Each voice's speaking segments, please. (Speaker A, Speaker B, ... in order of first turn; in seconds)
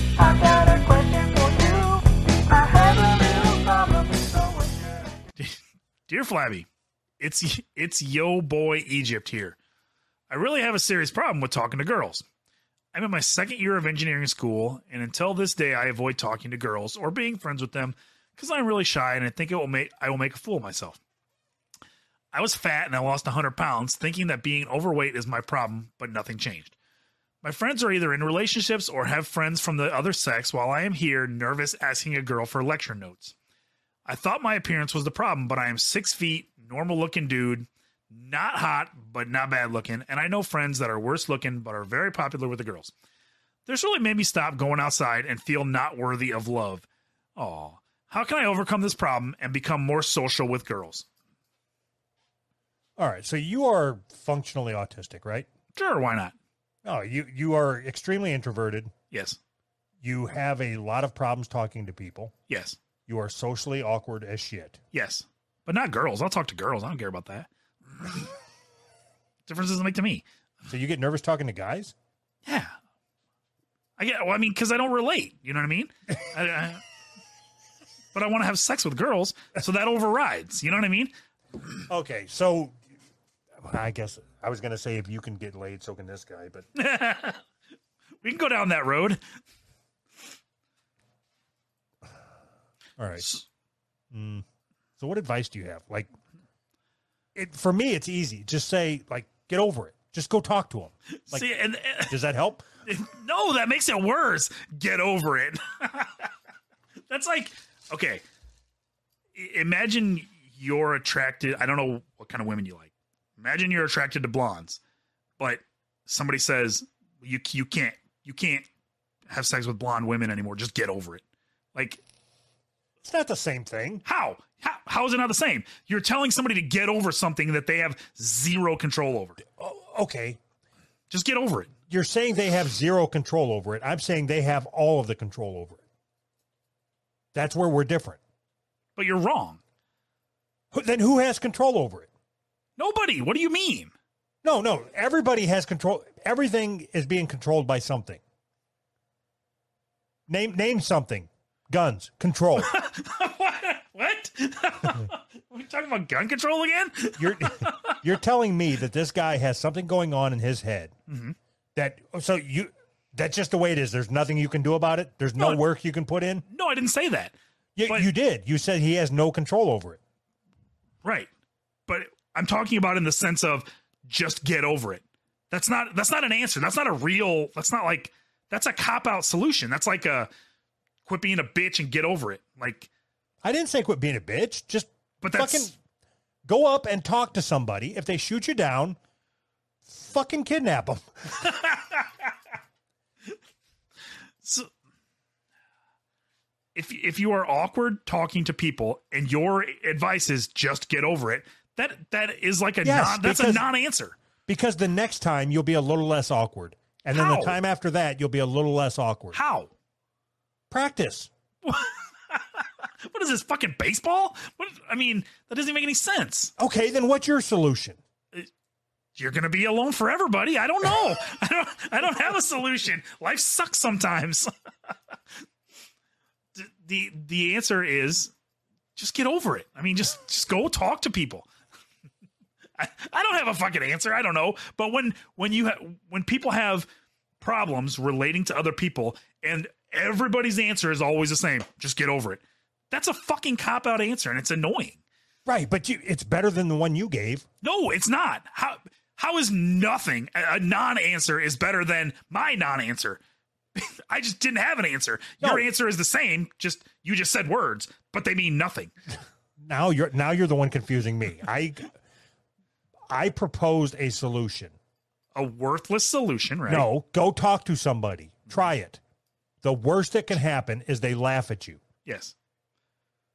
Speaker A: 0.2-2.0, 2.6-4.9, 53.0-55.5, 56.9-58.9, 60.0-62.3, 63.1-64.8, 70.7-72.0, 81.9-82.8, 83.6-86.7, 93.0-93.3, 94.1-94.4, 95.0-96.1, 97.3-101.5, 102.1-102.6, 123.0-124.0, 129.6-130.4, 131.9-135.8, 137.3-138.2, 140.7-142.1, 144.4-148.2, 150.3-152.7, 157.2-160.9, 161.8-166.4, 167.8-170.0, 183.4-185.8, 186.5-189.0, 189.9-191.1, 202.8-203.7, 204.5-209.4, 210.7-211.3, 216.6-218.0, 245.5-247.5, 259.6-261.9, 263.1-264.8, 266.7-269.0, 269.6-271.8
Speaker B: 0.2-4.8
Speaker C: 5.4-6.7, 7.2-9.6, 10.3-12.2, 12.9-21.0, 22.3-26.8, 27.4-33.4, 34.1-42.9, 43.7-51.1, 55.7-56.4, 59.1-59.4, 62.5-62.8, 64.9-68.3, 69.5-70.3, 72.5-72.8, 74.0-76.8, 78.1-81.1, 86.8-87.4, 88.2-89.2, 93.2-93.5, 101.2-102.2, 102.8-106.3, 107.1-108.2, 109.3-114.8, 115.4-118.7, 119.3-122.0, 124.0-129.4, 131.1-131.7, 139.0-139.6, 142.8-143.9, 152.6-158.0, 161.1-161.4, 165.4-165.6, 166.4-168.1, 171.0-171.3, 171.9-180.3, 181.1-182.9, 185.2-185.7, 191.4-192.3, 194.4-194.7, 196.8-204.2, 207.1-207.6, 209.3-209.7, 211.6-216.5, 219.2-224.5, 226.6-228.3, 229.0-231.5, 232.8-236.9, 237.4-245.0, 247.6-253.2, 253.8-258.9, 265.3-266.9, 272.1-272.4